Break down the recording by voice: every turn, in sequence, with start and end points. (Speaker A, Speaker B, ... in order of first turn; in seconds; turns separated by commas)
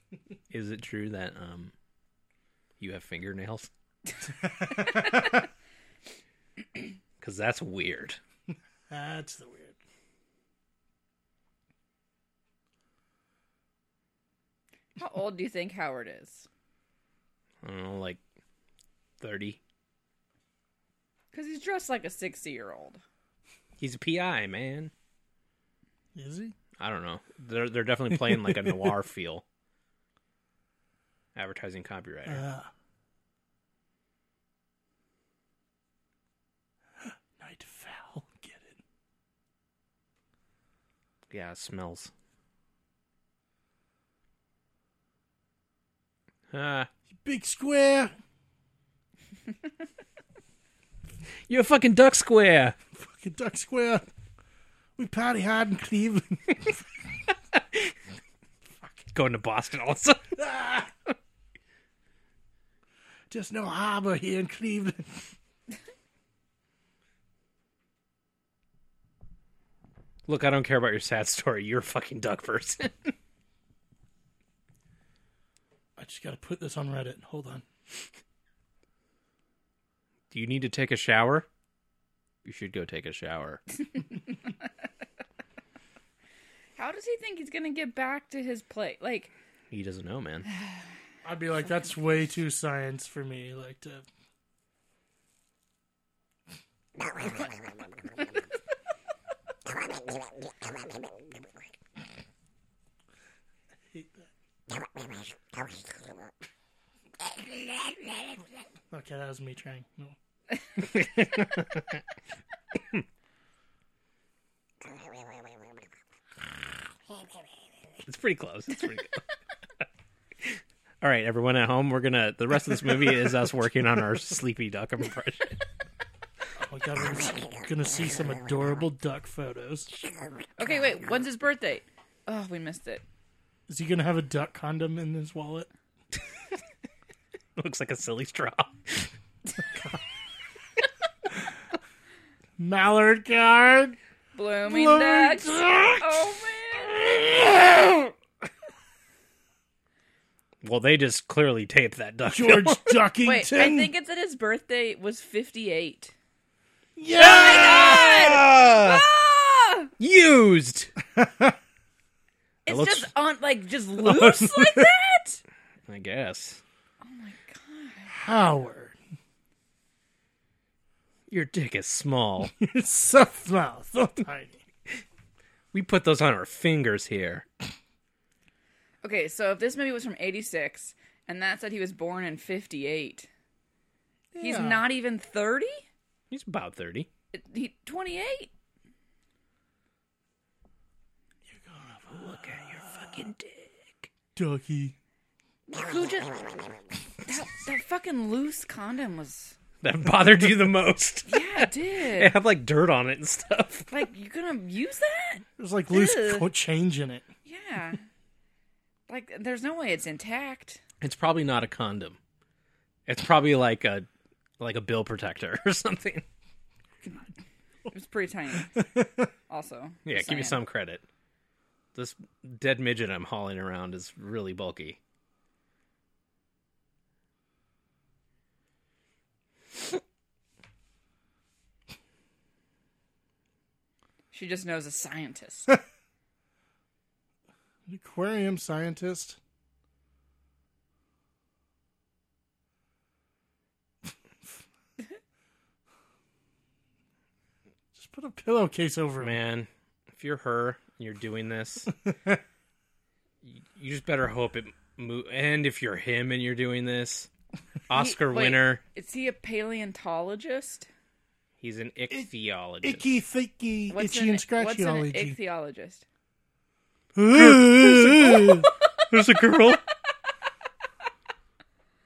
Speaker A: 0.5-1.7, Speaker A: 2.8-3.7, Speaker B: 4.3-5.5, Speaker A: 7.2-8.2, Speaker B: 8.9-9.8, Speaker C: 14.9-16.5, Speaker A: 17.6-18.2, Speaker A: 19.2-19.6, Speaker C: 21.3-23.0, Speaker A: 23.8-24.9, Speaker B: 26.1-26.5, Speaker A: 26.8-29.4, Speaker A: 31.3-32.4, Speaker B: 32.3-32.7, Speaker B: 37.0-38.8, Speaker A: 41.3-42.1, Speaker A: 46.5-46.9, Speaker B: 47.1-48.1, Speaker A: 51.5-52.8, Speaker B: 52.9-54.1, Speaker B: 55.0-56.8, Speaker A: 57.5-57.9, Speaker A: 59.1-60.4, Speaker B: 60.3-60.9, Speaker B: 63.3-65.3, Speaker A: 70.3-73.1, Speaker B: 76.0-77.6, Speaker A: 80.3-81.5, Speaker A: 82.4-83.6, Speaker C: 86.8-89.3, Speaker A: 89.7-90.5, Speaker B: 91.2-94.0, Speaker B: 103.9-104.3, Speaker B: 108.9-110.2, Speaker A: 110.8-112.0, Speaker A: 118.0-119.2, Speaker A: 120.4-125.6, Speaker B: 126.5-130.0, Speaker C: 130.6-133.0, Speaker B: 133.7-135.7, Speaker A: 137.6-139.1, Speaker B: 142.6-144.0, Speaker C: 144.3-147.3, Speaker B: 144.6-146.4, Speaker A: 150.6-153.0, Speaker B: 152.3-153.9, Speaker C: 153.2-156.1, Speaker B: 157.0-158.1, Speaker C: 157.2-159.9, Speaker A: 157.2-159.0, Speaker A: 160.0-160.9, Speaker B: 161.1-161.6, Speaker C: 162.7-165.4, Speaker A: 162.7-163.1, Speaker B: 164.0-164.9, Speaker A: 165.9-166.6, Speaker C: 167.0-168.1, Speaker B: 168.1-168.9, Speaker A: 171.3-172.5, Speaker B: 172.5-174.6, Speaker A: 175.7-177.4, Speaker C: 179.0-183.3, Speaker B: 184.3-184.8, Speaker C: 184.4-185.8, Speaker A: 186.3-187.1, Speaker C: 187.3-188.5, Speaker B: 191.5-193.3, Speaker A: 192.1-194.1, Speaker B: 194.3-194.9, Speaker C: 195.7-199.6, Speaker A: 199.8-203.9, Speaker C: 201.3-202.3, Speaker C: 203.9-206.5, Speaker B: 205.6-207.3, Speaker C: 207.4-208.0, Speaker C: 209.1-210.8, Speaker A: 211.0-212.2, Speaker A: 213.1-214.1, Speaker A: 214.6-216.2, Speaker C: 217.9-218.9, Speaker B: 218.8-219.3, Speaker C: 219.5-220.6, Speaker A: 220.1-221.0, Speaker A: 221.9-225.0, Speaker C: 234.3-235.8, Speaker B: 237.9-239.4, Speaker B: 247.9-249.4, Speaker A: 249.2-251.9, Speaker B: 251.9-252.4, Speaker A: 253.4-257.3, Speaker A: 257.9-258.8, Speaker C: 257.9-260.9, Speaker A: 261.6-263.1, Speaker B: 262.8-265.4, Speaker C: 263.9-266.0, Speaker B: 267.1-268.7, Speaker A: 267.3-269.8